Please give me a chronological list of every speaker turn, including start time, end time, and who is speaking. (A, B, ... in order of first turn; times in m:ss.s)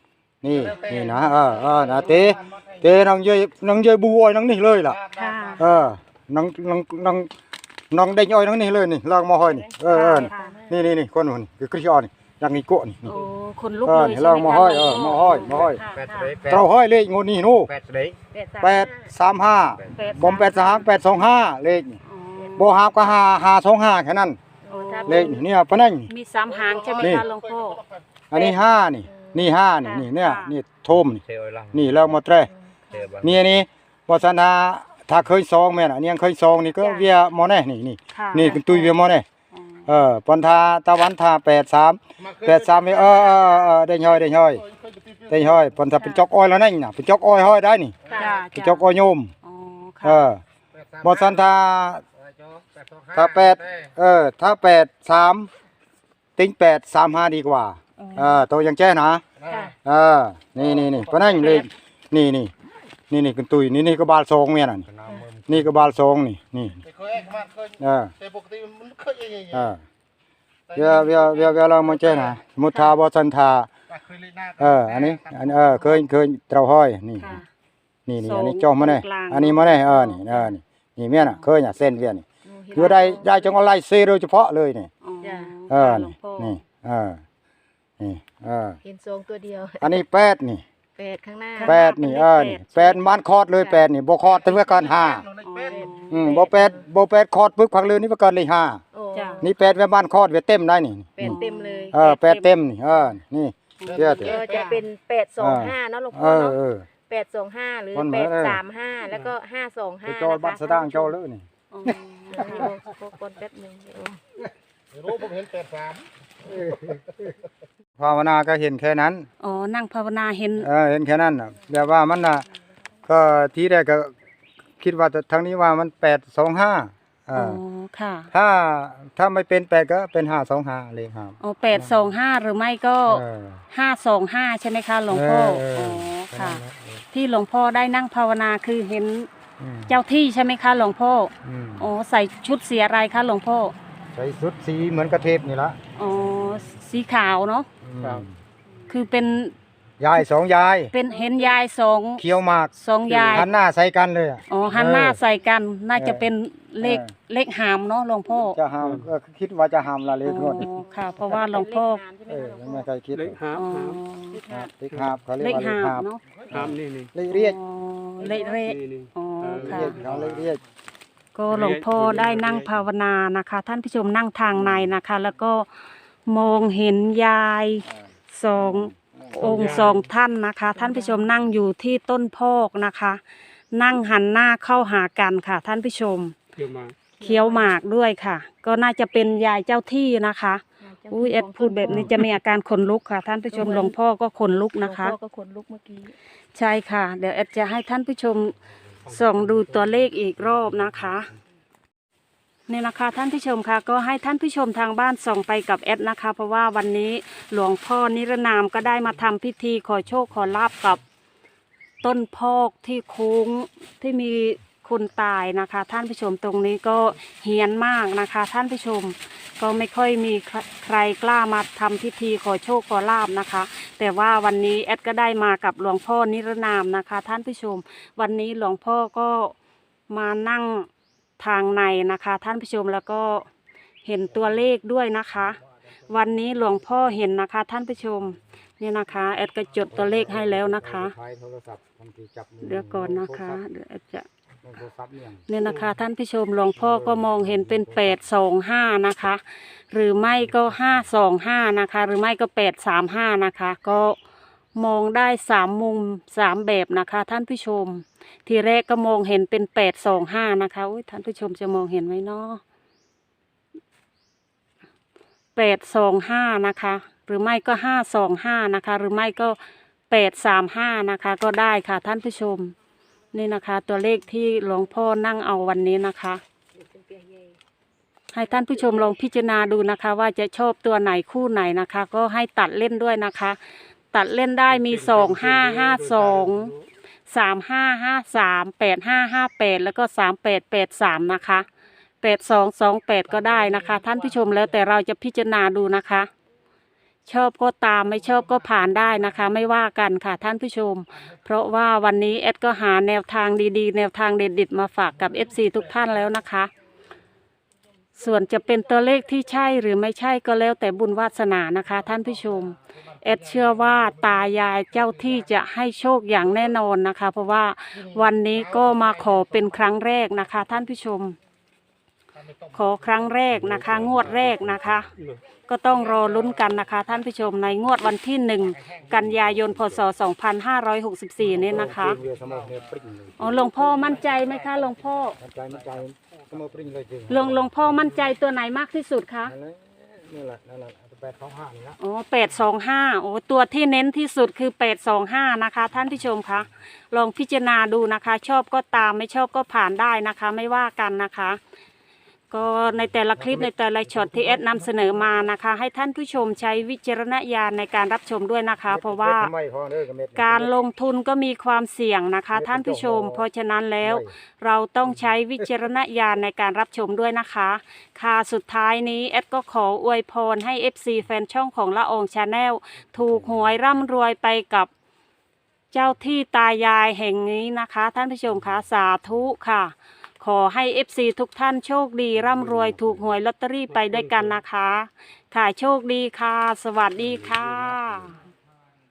0:00.4-0:05.0 A
0:05.1-0:05.7 B
0:05.6-0:07.3 A
0:07.9-0:13.1 A
0:09.5-0:10.8 C
0:09.9-0:10.6 B
0:13.0-0:16.3 B
0:13.8-0:15.8 A
0:15.6-0:16.7 D
0:16.4-0:17.7 A
0:17.7-0:18.2 D
0:18.3-0:19.1 C
0:18.6-0:22.0 A
0:19.8-0:20.1 D
0:20.0-0:20.9 B
0:22.0-0:22.7 B
0:22.4-0:22.7 C
0:22.6-0:24.4 A
0:24.6-0:25.4 C
0:24.7-0:25.4 B
0:25.1-0:26.1 A
0:26.1-0:27.8 B
0:27.0-0:27.3 A
0:28.3-0:32.5 A
0:29.0-0:29.5 C
0:29.8-0:30.6 B
0:30.9-0:32.1 D
0:32.4-0:33.2 C
0:32.9-0:33.6 D
0:33.2-0:39.2 A
0:36.8-0:37.1 C
0:38.1-0:39.0 B
0:39.5-0:39.9 B
0:39.9-0:44.7 A
0:45.3-0:48.0 A
0:46.0-0:46.3 B
0:48.1-0:48.4 C
0:48.1-0:48.8 B
0:48.5-0:49.3 A
0:49.4-0:50.3 B
0:50.0-0:50.4 A
0:51.0-0:52.0 A
0:53.1-0:55.5 A
0:56.4-0:59.2 A
0:58.0-0:58.4 B
0:59.8-1:02.5 A
1:03.1-1:04.9 A
1:05.1-1:05.6 D
1:05.5-1:06.9 A
1:07.8-1:08.2 A
1:09.4-1:09.8 A
1:10.7-1:13.7 A
1:14.6-1:17.4 A
1:17.2-1:17.5 B
1:18.1-1:24.9 A
1:18.2-1:20.5 B
1:22.4-1:23.6 C
1:25.0-1:26.6 B
1:25.2-1:25.5 C
1:25.7-1:27.2 A
1:28.0-1:28.8 A
1:28.8-1:30.0 C
1:29.8-1:30.6 A
1:31.0-1:31.8 C
1:31.6-1:33.0 B
1:31.6-1:35.3 A
1:33.6-1:33.9 C
1:35.4-1:36.4 B
1:35.6-1:36.8 C
1:36.1-1:38.8 A
1:38.9-1:39.4 C
1:39.1-1:39.5 B
1:39.4-1:41.4 A
1:41.2-1:41.9 C
1:41.2-1:42.6 B
1:41.9-1:44.4 A
1:43.8-1:44.8 B
1:44.2-1:51.2 C
1:45.4-1:46.9 A
1:47.9-1:48.6 A
1:50.0-1:52.0 A
1:51.7-1:52.7 B
1:52.3-1:54.2 C
1:58.0-1:59.3 A
1:59.4-2:00.7 B
2:00.6-2:02.5 A
2:03.1-2:04.1 A
2:04.8-2:07.6 A
2:07.3-2:08.3 B
2:08.3-2:12.1 A
2:11.4-2:19.3 B
2:13.1-2:13.6 A
2:15.1-2:17.0 A
2:19.6-2:20.0 A
2:19.9-2:23.8 B
2:21.4-2:21.9 A
2:24.1-2:25.8 A
2:26.0-2:27.7 B
2:27.8-2:28.4 A
2:28.9-2:29.6 B
2:30.0-2:30.9 A
2:30.9-2:33.5 B
2:32.2-2:35.2 A
2:34.5-2:38.6 B
2:36.0-2:36.3 A
2:36.8-2:37.1 A
2:38.3-2:40.7 A
2:38.8-2:39.1 E
2:40.2-2:42.0 B
2:40.8-2:42.9 C
2:42.3-2:43.4 A
2:43.1-2:44.0 E
2:43.6-2:44.4 B
2:44.3-2:44.7 C
2:44.5-2:47.6 A
2:44.9-2:45.1 E
2:45.4-2:46.2 B
2:46.5-2:47.1 E
2:47.3-2:50.0 B
2:48.2-2:48.6 C
2:48.2-2:50.5 E
2:49.6-2:50.6 A
2:51.4-2:55.7 B
2:51.5-2:52.8 E
2:54.6-2:54.9 A
2:56.2-3:03.2 B
2:58.5-2:59.8 A
2:59.4-3:00.0 E
3:00.8-3:01.2 C
3:03.7-3:06.4 B
3:06.6-3:07.0 E
3:07.1-3:07.7 C
3:07.2-3:15.2 B
3:10.8-3:12.2 C
3:13.5-3:14.0 C
3:14.8-3:16.1 C
3:16.5-3:18.6 B
3:19.1-3:21.3 B
3:19.1-3:20.0 E
3:22.7-3:31.0 B
3:32.0-3:49.6 B
3:50.1-3:53.5 B
3:54.0-4:01.1 B
3:59.9-4:03.6 A
4:02.6-4:04.3 B
4:04.6-4:05.5 A
4:05.5-4:14.2 B
4:05.6-4:05.9 E
4:06.8-4:08.2 A
4:10.3-4:11.1 A
4:14.8-4:22.6 B
4:25.6-4:29.6 B
4:30.1-4:32.8 B
4:33.3-4:36.4 B
4:36.7-4:37.6 C
4:38.3-4:43.6 B
4:38.7-4:39.1 C
4:44.1-4:46.7 B
4:44.7-4:46.8 E
4:47.3-4:51.6 B
4:52.2-4:56.3 B
4:57.2-5:06.7 B
5:08.2-5:21.4 B
5:22.7-5:25.1 B
5:23.5-5:25.1 A
5:25.6-5:32.2 B
5:29.1-5:30.0 A
5:31.5-5:34.0 A
5:33.4-5:35.4 B
5:35.4-5:38.1 A
5:37.3-5:39.5 B
5:39.4-5:42.0 A
5:42.0-5:51.6 B
5:52.5-5:59.5 B
5:53.1-5:55.5 A
5:58.9-6:00.7 A
6:00.4-6:14.9 B
6:02.5-6:03.5 A
6:04.0-6:04.3 A
6:13.1-6:14.0 A
6:15.9-6:28.4 B
6:22.3-6:23.3 A
6:23.9-6:24.6 E
6:27.2-6:28.3 A